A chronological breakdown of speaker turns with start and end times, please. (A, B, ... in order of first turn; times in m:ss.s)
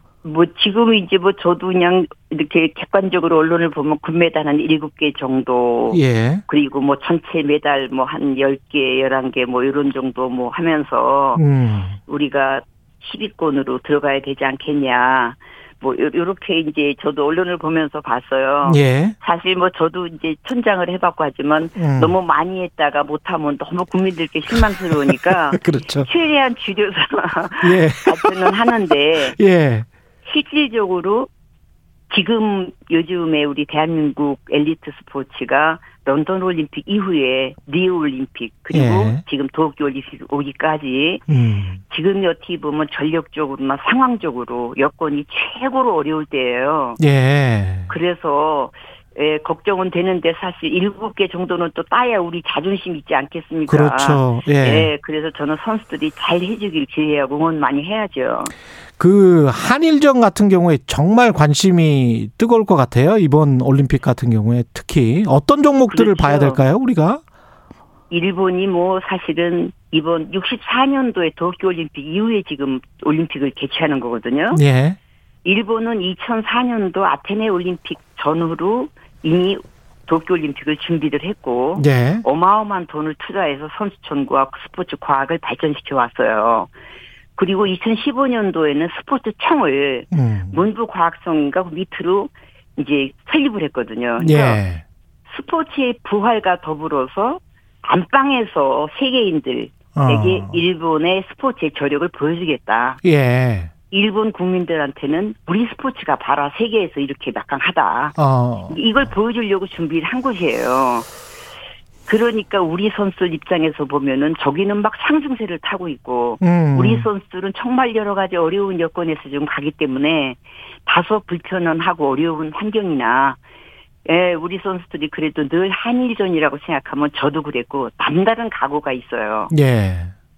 0:00.2-0:11.4 A
0:05.9-0:06.4 B
0:11.4-0:12.0 B
0:12.0-0:29.4 A
0:18.6-0:19.2 B
0:21.8-0:22.2 B
0:25.5-0:26.1 B
0:27.6-0:28.6 B
0:29.3-0:29.9 B
0:30.2-0:31.3 A
0:32.1-0:41.3 A
0:38.7-0:39.2 B
0:41.3-0:41.8 B
0:41.8-0:47.0 A
0:47.0-0:47.9 B
0:47.9-0:58.5 A
0:53.7-0:54.9 B
0:59.0-1:07.2 B
1:05.9-1:06.6 A
1:08.1-1:14.6 A
1:14.5-1:15.0 B
1:15.4-1:26.7 A
1:21.8-1:22.2 B
1:27.4-1:34.6 A
1:30.1-1:30.6 B
1:34.2-1:34.8 B
1:35.3-1:43.0 A
1:40.0-1:40.6 B
1:43.0-1:43.7 B
1:43.9-1:48.2 A
1:48.2-1:48.8 B
1:48.7-1:51.1 A
1:52.1-2:03.4 A
1:56.4-1:57.1 B
2:04.1-2:09.5 A
2:09.5-2:10.1 B